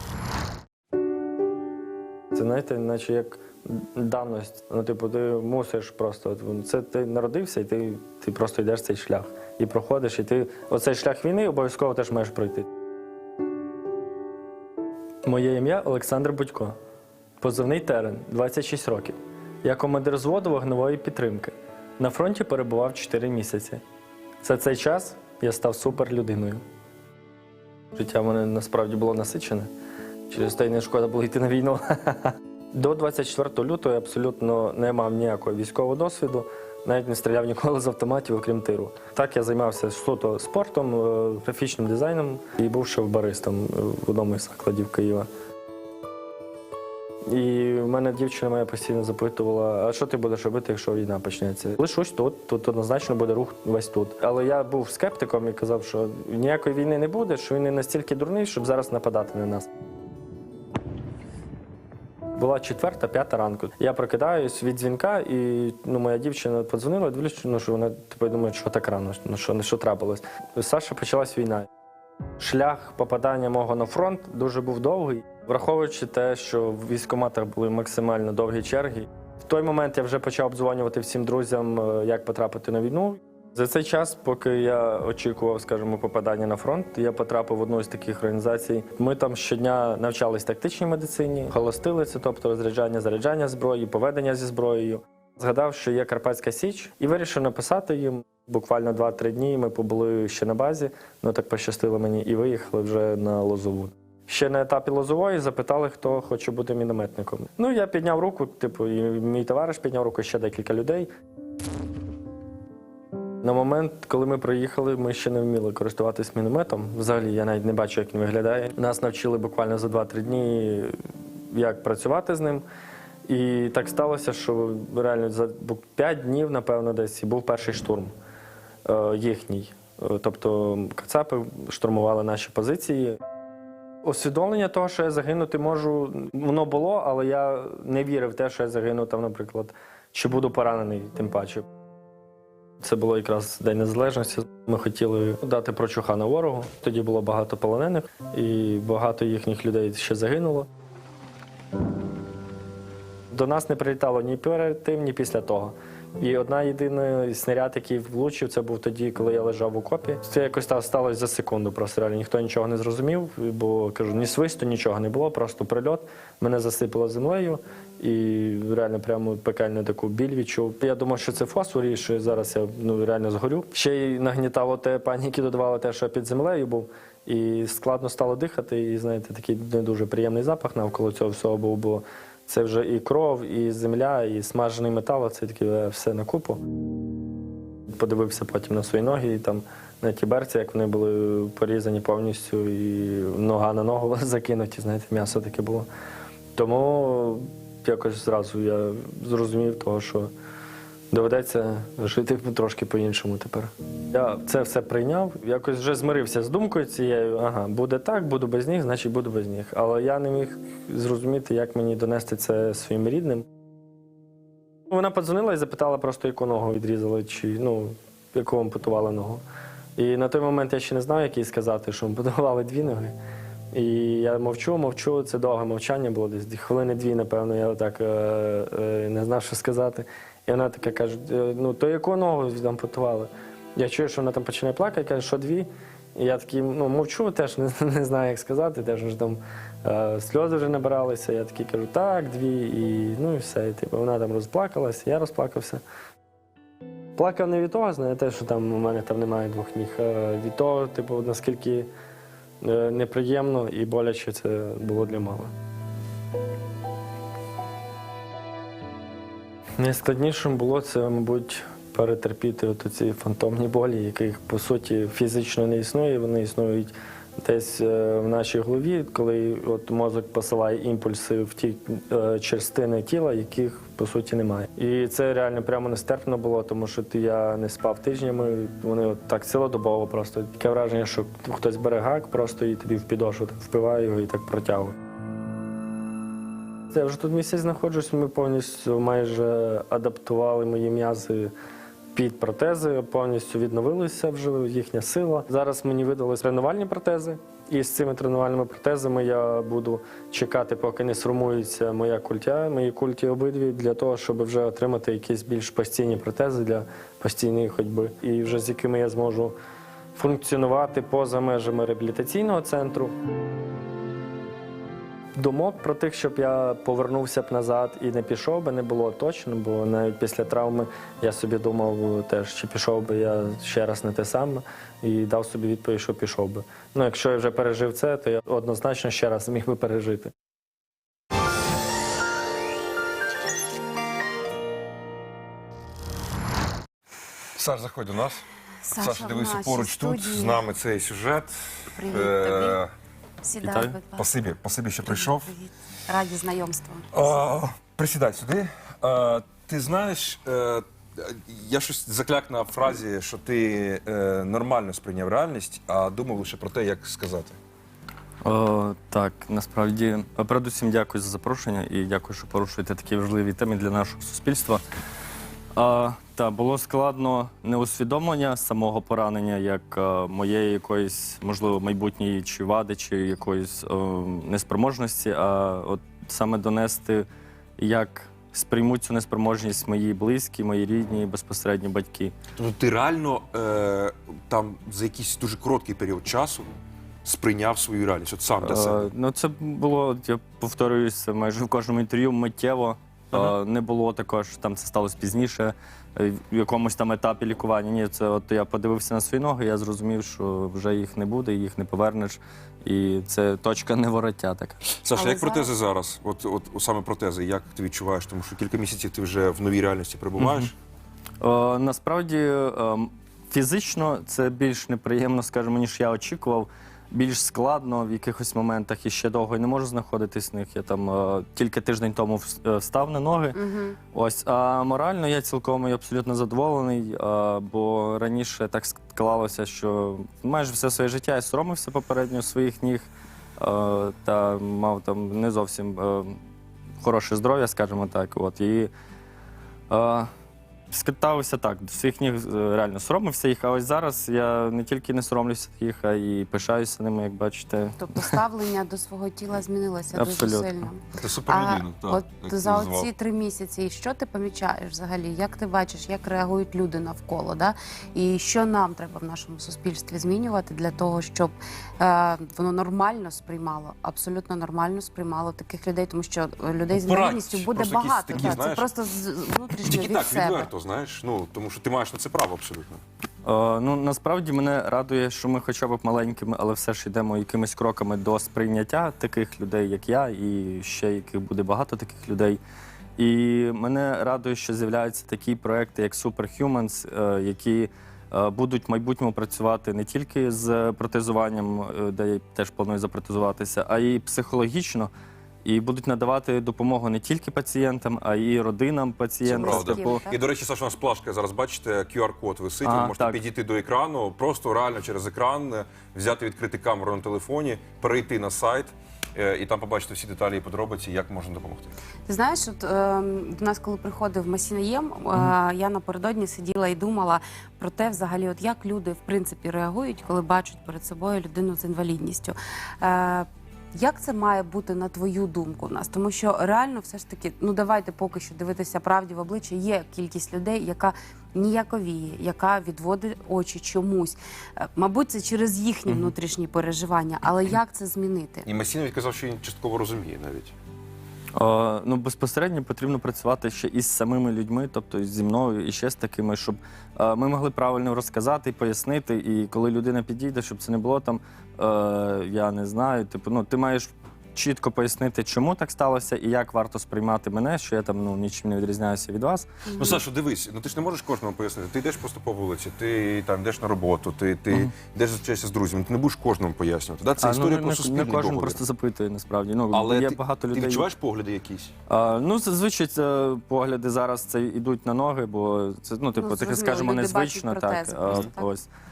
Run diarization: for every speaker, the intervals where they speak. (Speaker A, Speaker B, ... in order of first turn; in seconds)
Speaker A: 2.3-12.7, 15.2-16.7, 17.4-23.8, 24.4-26.6, 27.9-29.7, 30.3-45.2, 47.3-59.7, 62.4-71.7, 72.4-111.1, 113.4-120.9, 121.5-122.6, 123.3-128.1, 128.8-133.2, 134.0-141.7, 142.8-150.7, 153.3-186.6, 187.9-195.9, 196.6-200.3, 201.1-213.4, 214.9-219.4, 219.9-223.2, 223.7-245.8, 247.2-251.9, 252.6-255.5, 259.8-284.9, 286.9-291.5, 292.1-309.6, 310.1-313.1, 315.4-330.3
Speaker B: 337.6-342.9, 344.1-345.5, 347.1-357.6, 382.6-386.7, 387.2-389.1, 405.0-410.7, 451.1-453.1, 466.9-469.0, 469.8-473.0, 499.4-511.9, 538.6-540.7, 560.0-568.8, 569.9-571.9
Speaker C: 338.9-340.6, 341.9-342.8, 343.4-344.3, 345.1-347.2, 405.1-405.7, 423.6-424.0, 448.0-470.7, 499.5-500.4, 512.3-538.7, 559.9-560.2, 576.3-578.7
Speaker D: 343.6-343.9, 358.4-364.8, 365.8-377.2, 377.8-382.3, 388.6-404.8, 410.4-410.7, 411.4-423.6, 424.1-436.4, 437.0-438.9, 439.9-440.3, 440.9-448.4, 450.1-450.8, 473.4-482.6, 483.2-495.1, 495.6-500.2, 502.8-503.4, 541.6-559.7, 567.4-571.1, 572.1-578.9